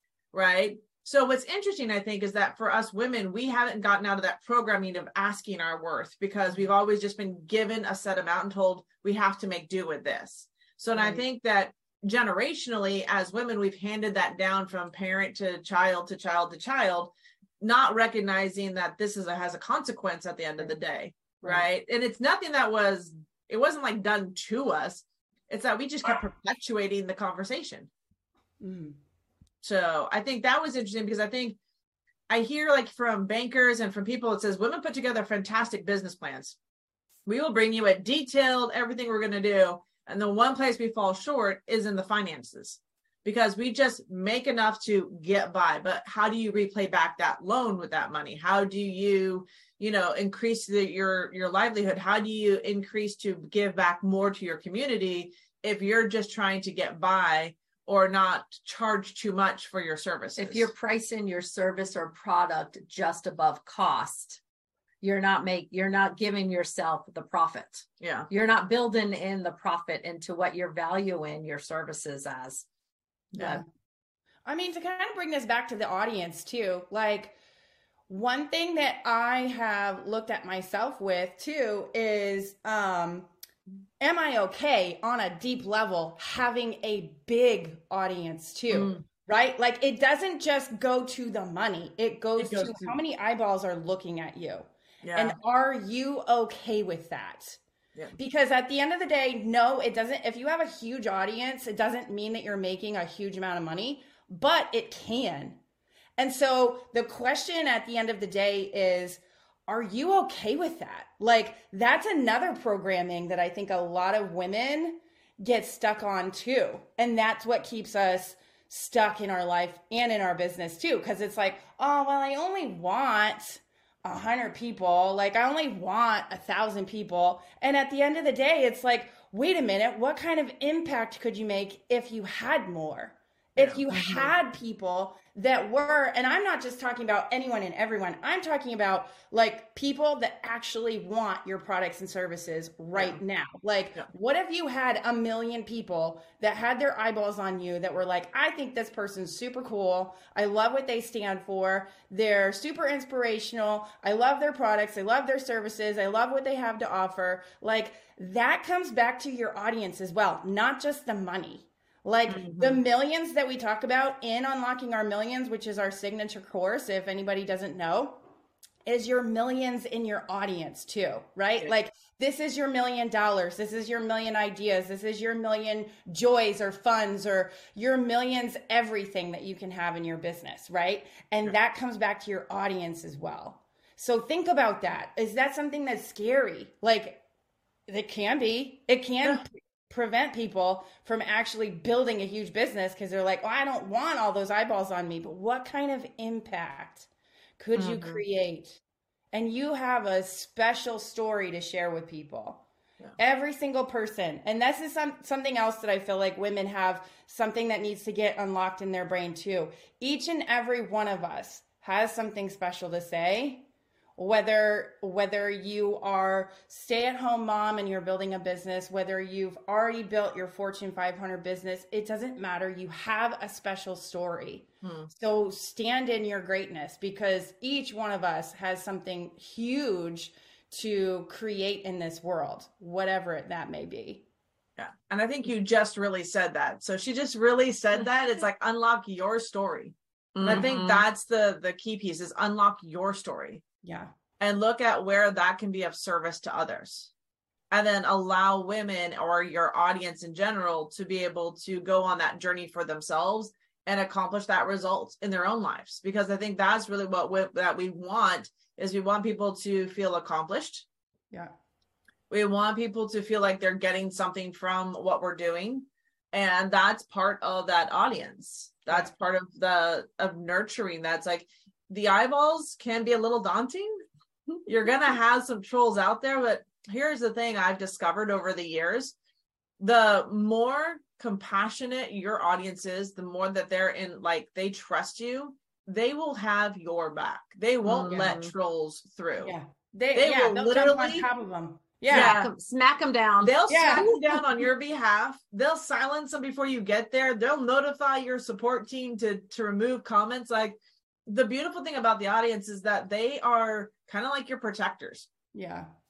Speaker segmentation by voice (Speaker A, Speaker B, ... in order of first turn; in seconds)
Speaker A: 0.3-27.9, 29.6-31.6, 32.3-36.6, 37.3-60.7, 68.0-68.3, 73.3-73.6, 88.7-89.0, 92.4-93.0, 95.0-95.4, 133.6-134.3, 142.9-143.2, 162.3-162.8, 197.8-198.2, 224.8-225.1, 234.8-243.6, 244.4-247.1, 247.7-260.9, 262.3-274.0, 274.7-279.2, 279.8-289.5, 290.1-291.3, 292.1-292.5, 293.4-305.3
Speaker B: 10.9-11.2, 28.6-29.0, 73.4-73.6, 74.5-77.4, 78.1-83.3, 84.0-97.6, 98.2-105.6, 106.2-168.2, 168.9-187.2, 187.9-198.8, 199.3-202.7, 203.2-234.3, 243.8-244.1, 289.4-292.4, 293.7-294.1, 305.5-305.9
Speaker C: 60.4-64.4, 65.0-72.7, 240.3-241.0, 287.9-288.5, 292.1-294.2